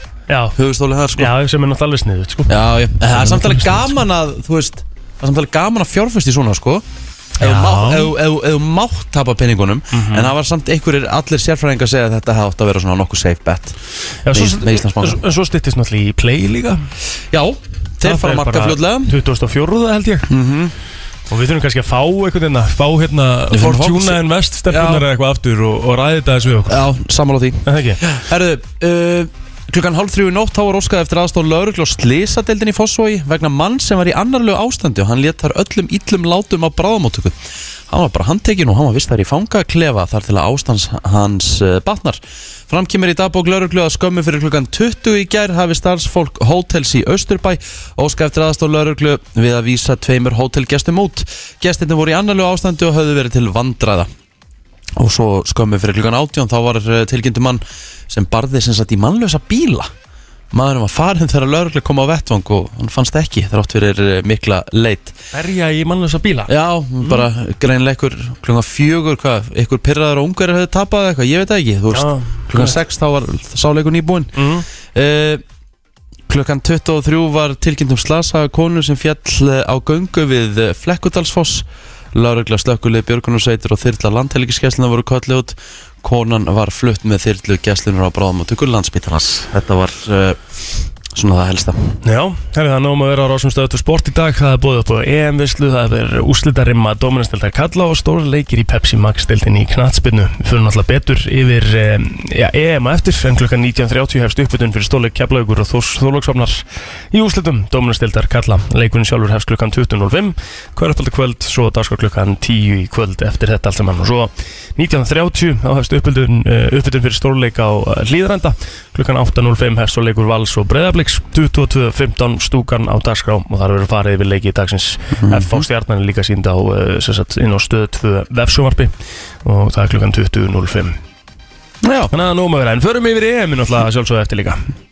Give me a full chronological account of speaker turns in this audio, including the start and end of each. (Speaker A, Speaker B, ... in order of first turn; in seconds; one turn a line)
Speaker A: 0.3-0.6
Speaker B: 0.6-1.3
Speaker A: 1.2-4.0
Speaker B: 2.5-6.8
Speaker A: 7.4-8.1
Speaker B: 7.4-13.8
Speaker A: 9.9-10.3
Speaker A: 14.2-16.9
Speaker B: 14.3-15.2
Speaker B: 17.3-19.1
Speaker A: 18.0-20.3
Speaker B: 20.3-20.7
Speaker A: 21.3-26.9
Speaker B: 23.5-25.0
Speaker B: 26.7-37.4
Speaker A: 27.6-28.0
Speaker B: 37.9-54.1
Speaker B: 55.0-59.9
Speaker B: 60.5-65.2
Speaker A: 65.3-66.5
Speaker B: 66.5-74.4
Speaker A: 71.9-72.8
Speaker A: 74.3-74.7
Speaker B: 74.9-75.4
Speaker B: 76.3-90.4
Speaker B: 91.1-91.9
Speaker A: 92.0-131.0
Speaker B: 125.2-125.6
Speaker B: 131.8-132.1
Speaker A: 132.1-134.6